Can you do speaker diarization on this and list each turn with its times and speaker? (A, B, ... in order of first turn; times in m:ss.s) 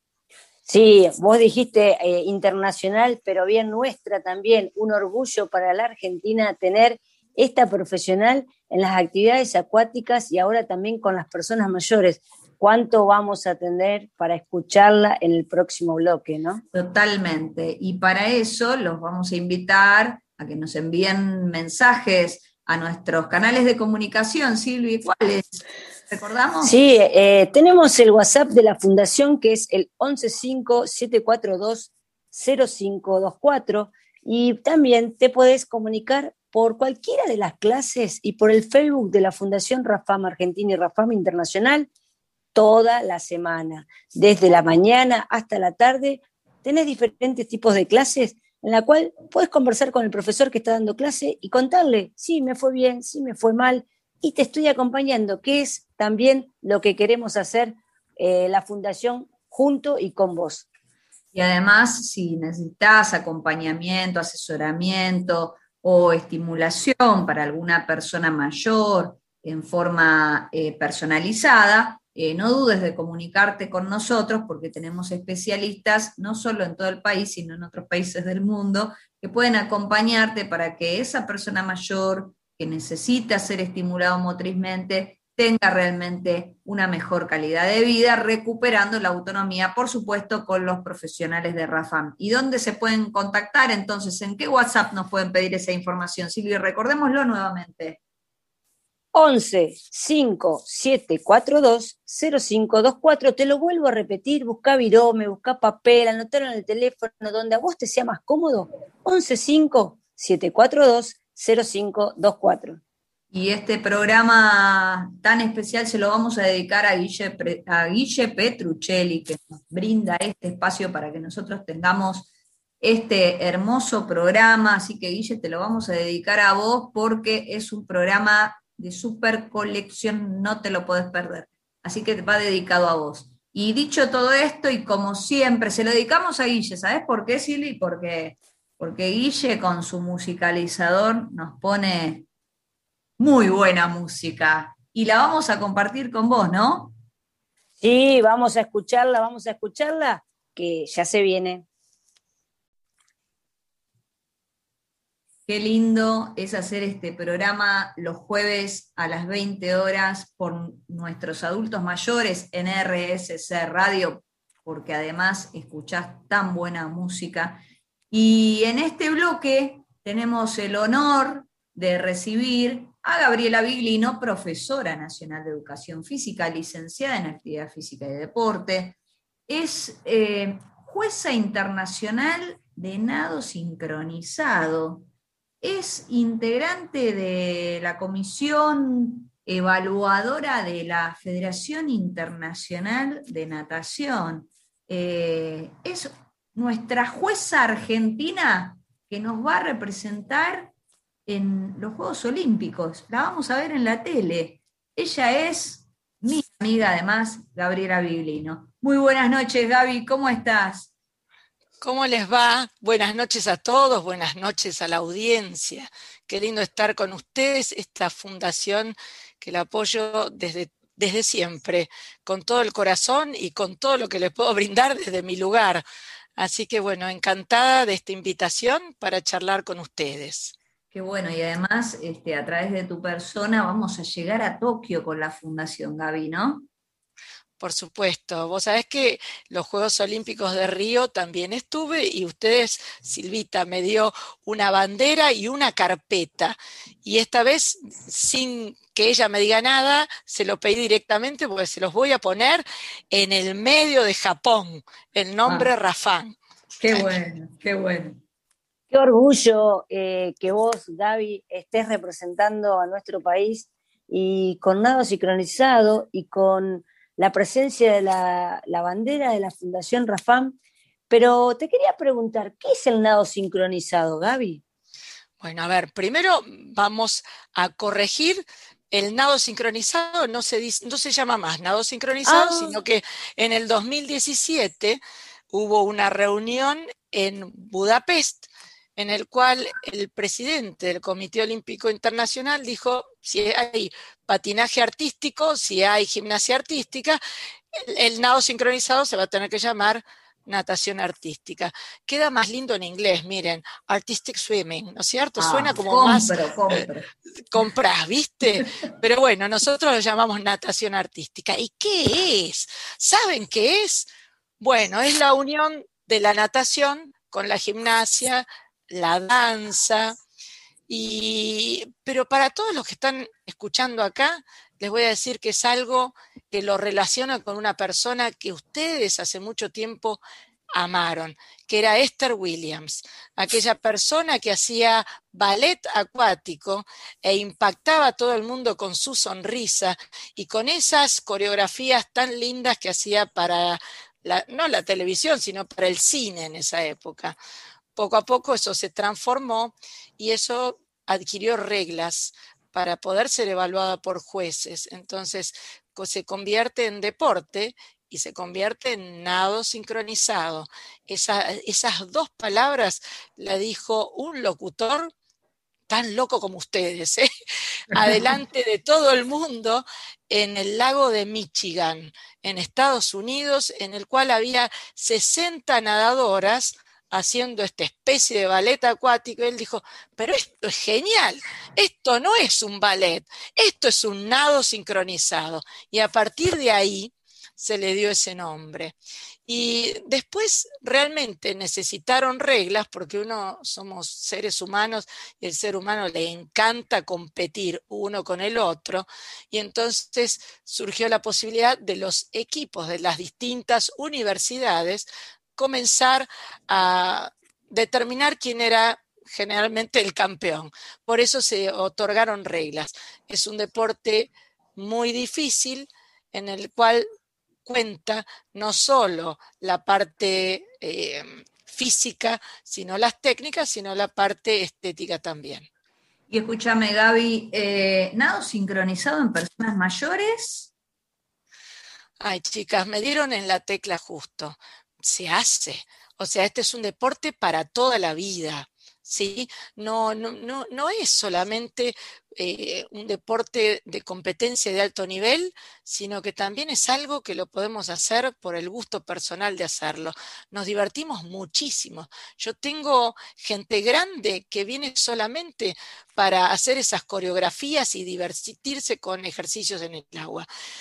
0:00.6-0:16.6 A
0:16.7-0:26.7 B
0:26.6-0:41.9 A
0:42.5-1:00.7 A
1:01.3-1:38.0 B
1:39.1-1:52.8 A
1:53.3-2:02.3 B
2:02.8-2:22.2 B
2:23.2-2:27.0 B
2:27.8-2:31.6 A
2:35.5-3:05.0 B
3:05.6-3:20.7 B
3:21.3-3:30.9 B
3:31.8-3:45.8 C
3:46.4-3:50.5 C
3:50.9-3:56.6 B
3:57.6-4:16.4 C
4:15.4-4:15.7 B
4:16.8-4:18.2 B
4:18.9-4:30.6 A
4:31.1-4:34.6 A
4:35.4-4:57.2 C
4:42.2-4:42.8 A
4:57.7-5:06.8 C
5:05.4-5:07.6 B
5:07.5-5:14.1 C
5:14.6-5:20.1 C
5:20.9-5:30.2 C
5:30.7-5:47.4 C
5:48.0-6:05.1 C
6:05.9-6:07.3 C
6:07.9-6:28.9 C
6:29.5-6:57.0 C
6:57.6-7:05.7 C
7:06.3-7:10.7 B
7:12.2-7:40.4 C